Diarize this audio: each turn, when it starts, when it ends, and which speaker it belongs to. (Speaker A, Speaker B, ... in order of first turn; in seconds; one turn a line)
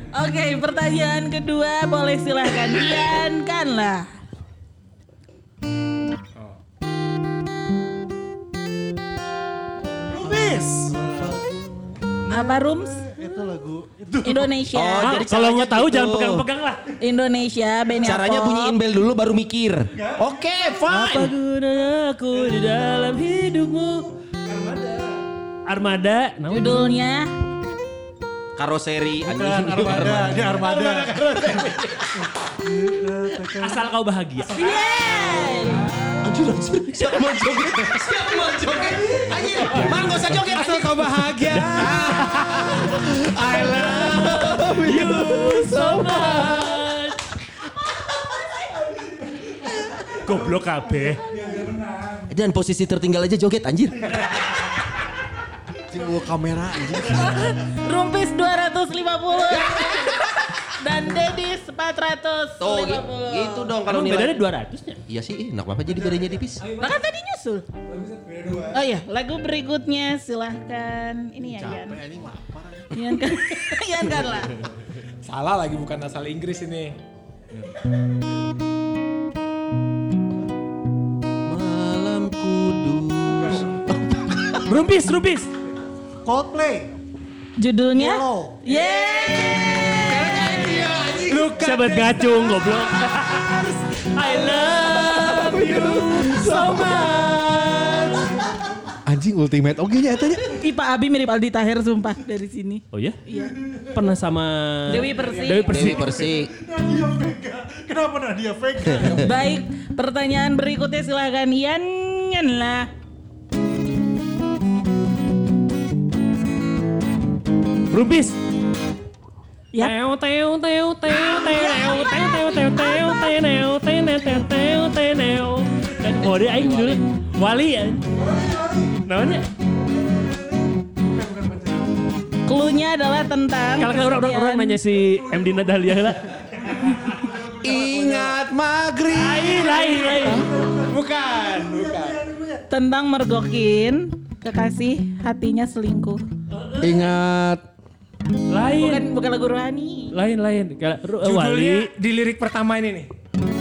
Speaker A: 0.1-4.1
Speaker B: 10.1-11.5
Speaker B: 12.3-14.6
Speaker A: 12.3-13.0
Speaker A: 14.2-15.2
Speaker C: 14.7-16.4
Speaker D: 15.0-16.9
Speaker A: 17.0-18.8
Speaker C: 18.0-21.3
Speaker B: 19.9-20.4
Speaker D: 20.9-24.1
Speaker E: 24.5-25.1
Speaker D: 25.7-26.8
Speaker A: 26.5-27.3
Speaker C: 28.6-30.6
Speaker B: 29.2-31.7
Speaker E: 30.5-32.1
Speaker B: 32.6-33.8
Speaker D: 33.6-34.6
Speaker A: 34.6-36.2
Speaker C: 36.2-41.1
Speaker D: 39.7-40.4
Speaker E: 40.5-42.0
Speaker C: 41.8-46.5
Speaker D: 41.9-42.3
Speaker D: 43.7-47.2
Speaker D: 50.2-51.2
Speaker B: 51.2-52.3
Speaker C: 52.3-54.3
Speaker F: 55.9-57.4
Speaker A: 57.1-63.8
Speaker C: 59.5-60.1
Speaker C: 62.6-64.4
Speaker D: 63.9-65.0
Speaker C: 65.1-66.6
Speaker B: 65.9-66.3
Speaker E: 66.6-67.0
Speaker A: 66.8-67.7
Speaker E: 67.9-68.8
Speaker B: 68.3-68.8
Speaker A: 68.7-72.0
Speaker F: 71.5-72.9
Speaker A: 72.9-74.6
Speaker E: 75.2-77.0
Speaker C: 81.5-84.7
Speaker D: 84.7-85.5
Speaker B: 86.2-86.9
Speaker A: 87.6-90.7
Speaker B: 88.0-88.6
Speaker E: 88.7-89.8
Speaker B: 90.1-91.4
Speaker E: 90.3-92.8
Speaker D: 91.6-98.0
Speaker E: 94.9-98.2
Speaker A: 95.3-97.2
Speaker F: 99.1-100.4
Speaker A: 100.5-103.6
Speaker D: 102.9-103.2
Speaker B: 103.3-104.0
Speaker D: 103.9-106.2
Speaker A: 104.9-105.7
Speaker B: 105.2-109.3
Speaker C: 105.7-106.5
Speaker C: 108.8-109.2
Speaker A: 109.2-112.9
Speaker D: 117.9-118.4
Speaker D: 119.8-128.1
Speaker A: 122.7-123.1
Speaker B: 128.2-129.1
Speaker D: 129.1-129.5
Speaker B: 130.1-130.4
Speaker B: 130.9-131.9
Speaker A: 132.5-134.8
Speaker D: 133.8-136.4
Speaker B: 135.1-135.9
Speaker B: 136.4-138.4
Speaker F: 137.6-140.4
Speaker D: 139.1-140.5
Speaker B: 139.7-142.6
Speaker E: 140.9-142.2
Speaker A: 142.7-146.2
Speaker D: 146.5-147.2
Speaker F: 146.8-147.6
Speaker D: 148.5-149.1
Speaker A: 148.8-150.2
Speaker D: 150.1-151.9
Speaker E: 151.2-153.1